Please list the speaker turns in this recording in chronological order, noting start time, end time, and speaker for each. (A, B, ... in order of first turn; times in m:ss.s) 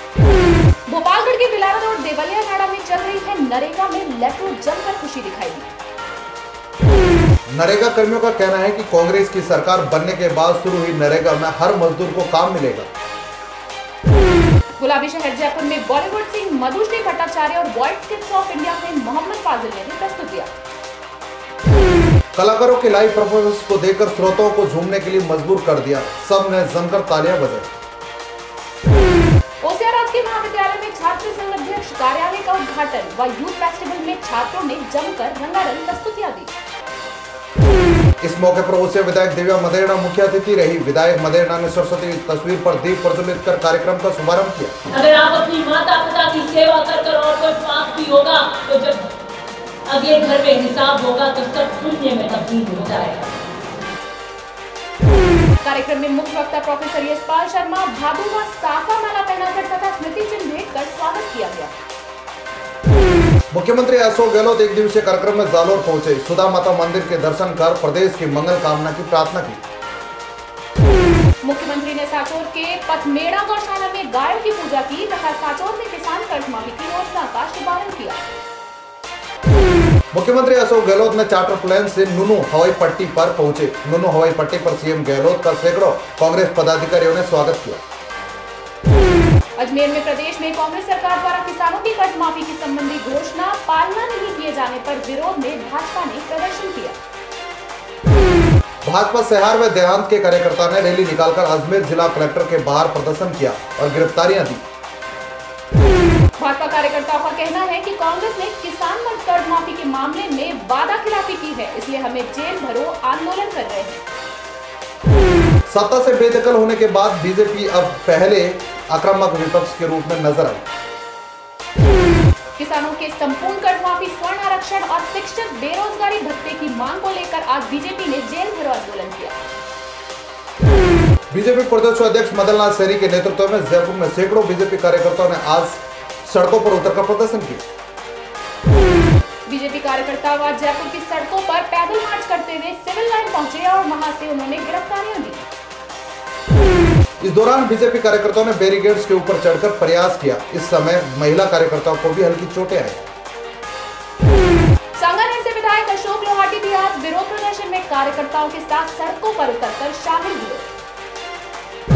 0:00.9-0:05.7 A
0:07.5-0:12.9 B
0:14.8-0:20.5 A
0:22.4-0:27.7 B
0:29.6-0:36.5 A
0:38.2-0:44.7 B
0:44.9-0:49.1 C
0:49.9-0:53.3 C
0:55.6-1:01.7 A
1:03.5-1:09.6 B
1:11.4-1:18.2 A
1:20.1-1:27.8 B
1:29.6-1:37.0 A
1:38.8-1:44.6 B
1:46.4-1:54.0 A
1:55.7-2:00.7 B
2:02.6-2:09.4 A
2:11.3-2:17.6 B
2:19.5-2:25.4 A
2:27.2-2:33.0 B
2:35.0-2:40.7 A